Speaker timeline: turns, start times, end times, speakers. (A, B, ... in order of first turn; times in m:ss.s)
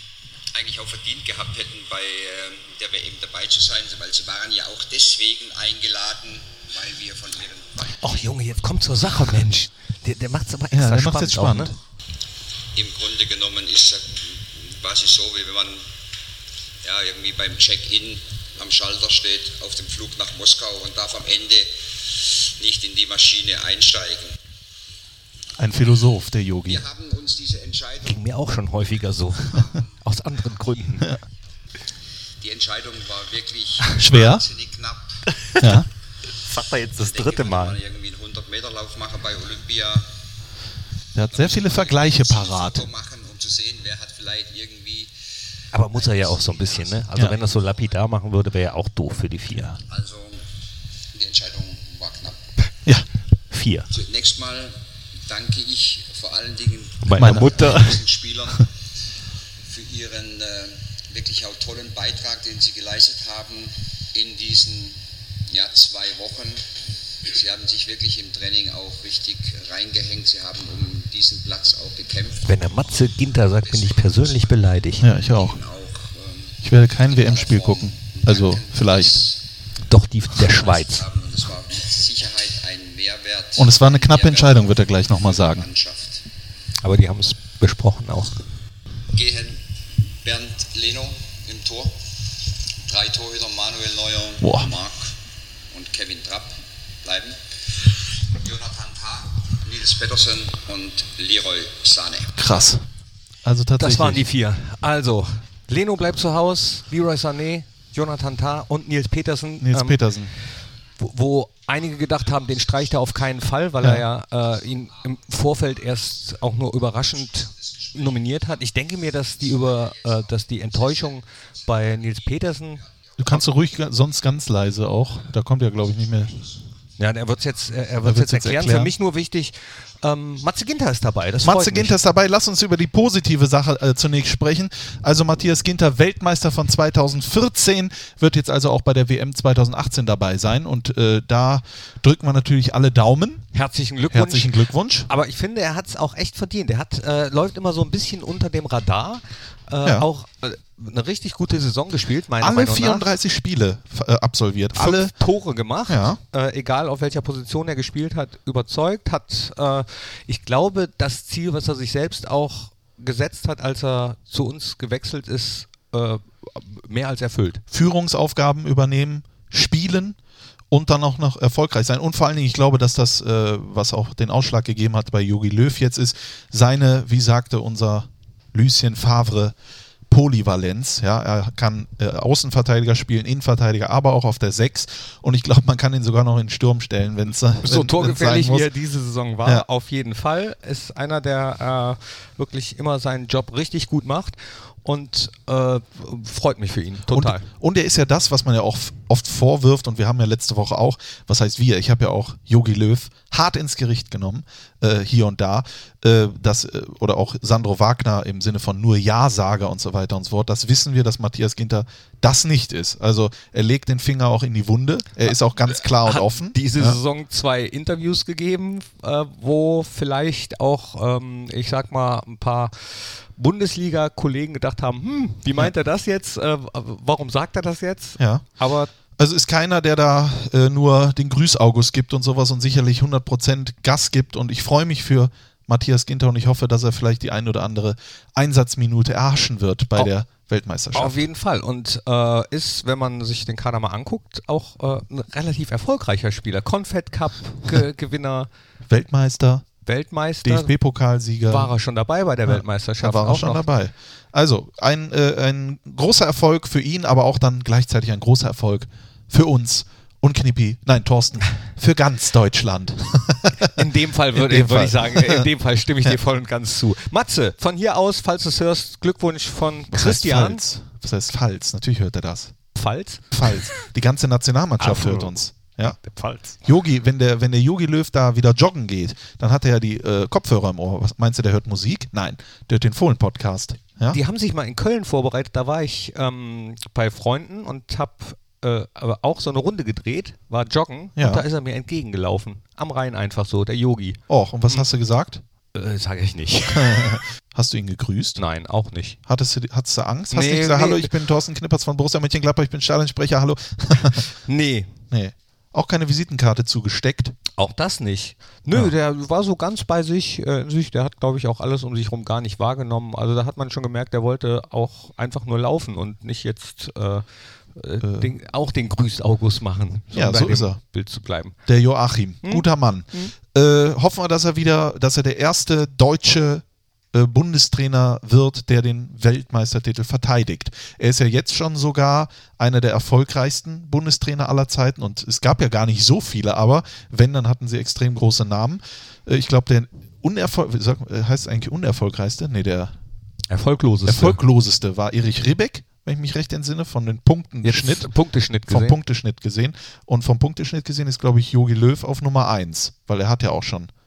0:00.5-0:08.3 A
0:08.0-0:11.7 B
0:10.7-0:11.7 C
0:12.7-0:15.8 A
0:16.8-0:24.4 A
0:25.6-0:26.8 C
0:26.6-0:28.2 A
0:28.0-0:31.1 B
0:29.4-0:29.9 A
0:32.4-0:35.2 A
0:34.0-0:34.4 C
0:35.3-0:35.8 B
0:35.6-0:35.9 C
0:36.4-0:37.8 B
0:37.0-0:40.1 A
0:41.1-0:42.8 C
0:41.3-0:45.1 A
0:45.7-0:49.8 B
0:45.8-0:47.9 A
0:49.5-0:49.8 C
0:49.9-0:50.4 A
0:51.1-0:52.4 A
0:53.5-0:53.9 B
0:53.9-0:58.7 A
0:57.0-0:58.0 B
0:57.1-0:57.7 C
0:59.6-1:06.6 A
1:07.2-1:12.4 A
1:12.4-1:15.1 B
1:13.6-1:14.6 A
1:15.0-1:15.6 C
1:15.2-1:19.4 A
1:16.6-1:19.2 C
1:19.9-1:21.0 B
1:20.3-1:26.2 A
1:23.6-1:25.6 C
1:26.8-1:28.3 B
1:29.1-1:29.6 A
1:30.2-1:32.0 A
1:32.8-1:35.1 A
1:34.4-1:34.7 C
1:35.7-1:42.6 A
1:42.4-1:42.8 C
1:43.4-1:44.2 C
1:43.8-1:50.0 B
1:49.6-1:50.3 C
1:51.0-2:02.8 B
1:52.2-1:52.9 A
1:57.1-2:03.5 A
2:03.2-2:06.3 C
2:06.0-2:06.6 A
2:07.0-2:12.0 B
2:08.0-2:08.9 C
2:11.4-2:23.5 C
2:23.5-2:24.5 B
2:24.1-2:25.1 C
2:25.1-2:33.1 B
2:32.4-2:35.1 C
2:34.7-2:47.6 B
2:35.9-2:36.2 C
2:47.7-2:50.2 C
2:50.7-2:59.5 C
3:00.1-3:08.7 C
3:07.6-3:17.4 B
3:17.1-3:37.0 C
3:36.0-3:42.7 B
3:43.4-3:48.9 B
3:48.2-3:48.4 C
3:49.2-4:01.2 C
4:00.9-4:08.5 B
4:08.9-4:09.6 C
4:09.8-4:10.7 B
4:10.4-4:11.7 C
4:11.5-4:13.6 B
4:12.5-4:25.5 C
4:23.7-4:30.6 B
4:29.9-4:32.5 C
4:32.7-4:33.7 B
4:33.3-4:36.0 C
4:34.8-4:36.6 B
4:36.6-4:44.2 C
4:44.1-4:54.2 B
4:51.2-4:51.4 C
4:54.3-4:55.4 C
4:55.7-4:57.2 B
4:56.7-4:58.4 C
4:58.4-4:59.2 B
4:59.2-5:04.2 C
5:00.3-5:01.1 B
5:04.5-5:04.9 B
5:05.1-5:07.4 C
5:07.6-5:17.2 B
5:17.8-5:21.6 B
5:18.0-5:18.3 C
5:20.1-5:20.8 C
5:21.6-5:42.9 C
5:22.4-5:23.3 B
5:43.5-5:44.4 B
5:44.1-5:48.1 C
5:47.6-5:49.0 B
5:48.7-5:53.9 C